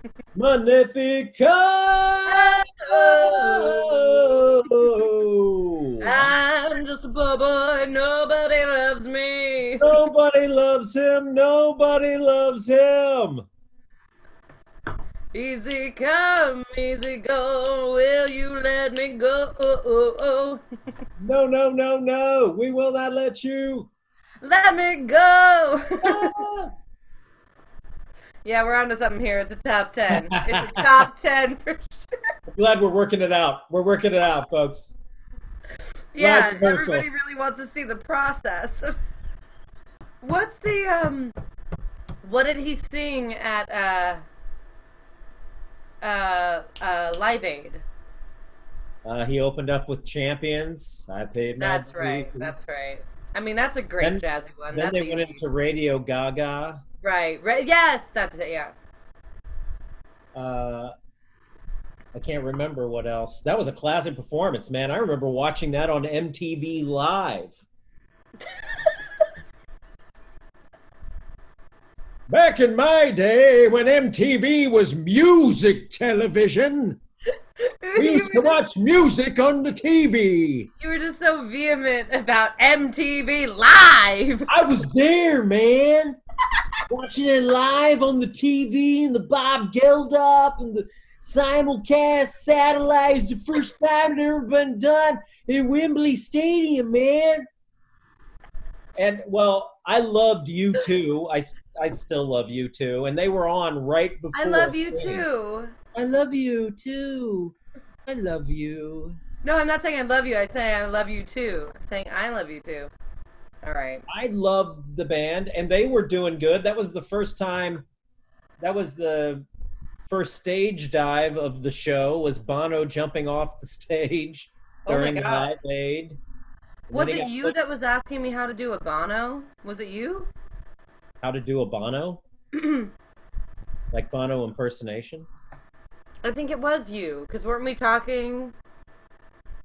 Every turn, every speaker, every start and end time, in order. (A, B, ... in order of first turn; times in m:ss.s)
0:00.4-0:06.4 A
0:02.3-0:04.4 B
0:06.0-0:09.9 B
0:09.8-0:13.5 A
0:15.3-0:20.6 B
0:21.2-0:23.9 A
0:24.4-0:26.4 B
0:26.0-0:26.7 A
0:28.4-0:32.1 B
0:30.1-0:31.1 A
0:32.5-0:35.0 A
0:36.1-0:39.0 B
0:36.2-0:37.1 A
0:40.2-0:41.3 B
0:42.2-0:44.2 B
0:46.0-0:47.8 B
0:49.0-0:52.6 A
0:51.6-0:55.4 B
0:54.0-0:56.8 A
0:57.0-0:58.7 B
1:00.3-1:00.9 A
1:02.1-1:07.6 A
1:08.5-1:08.9 B
1:12.3-1:17.0 A
1:17.6-1:18.6 B
1:18.0-1:20.7 A
1:20.8-1:24.5 B
1:24.5-1:26.2 A
1:26.9-1:37.5 A
1:39.0-1:45.3 A
1:44.3-1:45.7 B
1:45.9-1:47.6 A
1:48.1-1:49.2 A
1:49.4-1:52.9 B
1:53.6-1:54.0 B
1:54.1-1:57.9 A
1:58.6-1:59.4 A
2:00.1-2:06.2 A
2:04.9-2:05.6 B
2:06.9-2:07.6 A
2:06.9-2:10.3 B
2:11.2-2:12.2 A
2:12.5-2:12.9 B
2:13.9-2:15.3 A
2:16.2-2:18.5 B